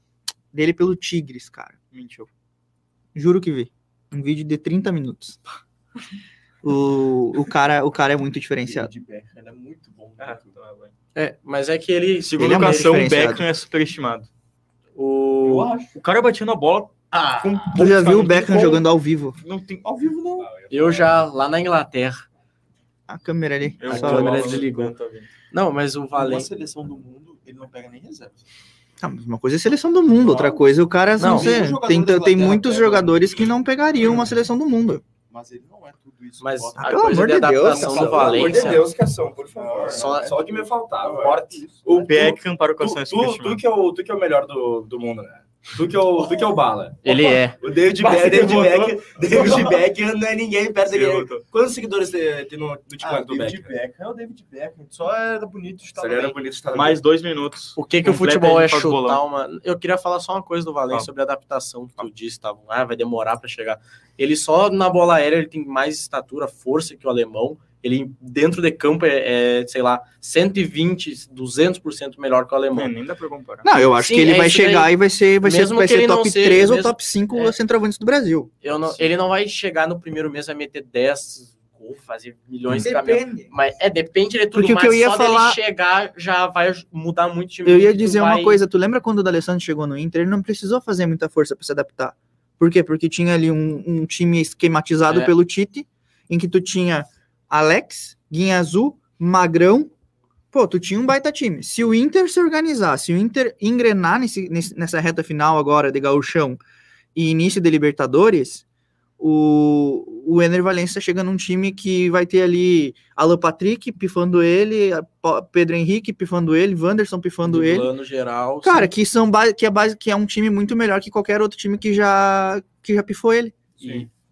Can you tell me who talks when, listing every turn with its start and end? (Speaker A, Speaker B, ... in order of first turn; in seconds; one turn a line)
Speaker A: 0.5-1.8
Speaker B: 1.9-2.3
Speaker A: 3.1-5.4
Speaker A: 6.6-8.9
Speaker C: 8.6-10.6
Speaker B: 10.2-10.9
Speaker D: 11.2-13.1
Speaker B: 12.2-14.3
Speaker A: 12.4-13.5
Speaker D: 15.0-15.8
Speaker C: 15.4-15.9
Speaker B: 15.9-18.9
Speaker D: 17.1-17.8
Speaker A: 17.7-19.4
Speaker B: 19.4-20.5
Speaker E: 20.4-21.3
Speaker D: 20.7-22.3
Speaker A: 23.1-24.6
Speaker B: 23.8-25.3
Speaker D: 23.9-24.9
Speaker D: 25.5-26.5
Speaker C: 26.1-28.5
Speaker A: 29.0-35.0
Speaker C: 30.1-33.2
Speaker D: 31.2-31.6
Speaker C: 35.3-37.5
Speaker D: 36.4-38.9
Speaker A: 36.8-38.1
Speaker E: 37.7-53.7
Speaker C: 38.1-38.9
Speaker C: 39.5-42.1
Speaker D: 39.9-40.4
Speaker D: 41.2-41.6
Speaker B: 41.9-43.6
Speaker D: 47.0-47.6
Speaker B: 48.0-49.1
Speaker C: 49.4-49.8
Speaker B: 50.9-51.4
Speaker C: 53.0-56.4
Speaker E: 56.0-57.0
Speaker B: 56.7-59.2
Speaker D: 57.8-73.0
Speaker B: 72.7-73.7
Speaker A: 73.6-78.5
Speaker D: 73.9-77.6
Speaker D: 78.6-88.6
Speaker A: 82.8-83.5
Speaker A: 84.5-85.6
Speaker A: 87.7-99.9
Speaker D: 95.1-95.3
Speaker A: 100.5-106.6
Speaker A: 107.2-108.6
Speaker A: 109.2-117.9
Speaker D: 117.4-118.9
Speaker A: 118.6-123.6
Speaker D: 123.8-124.1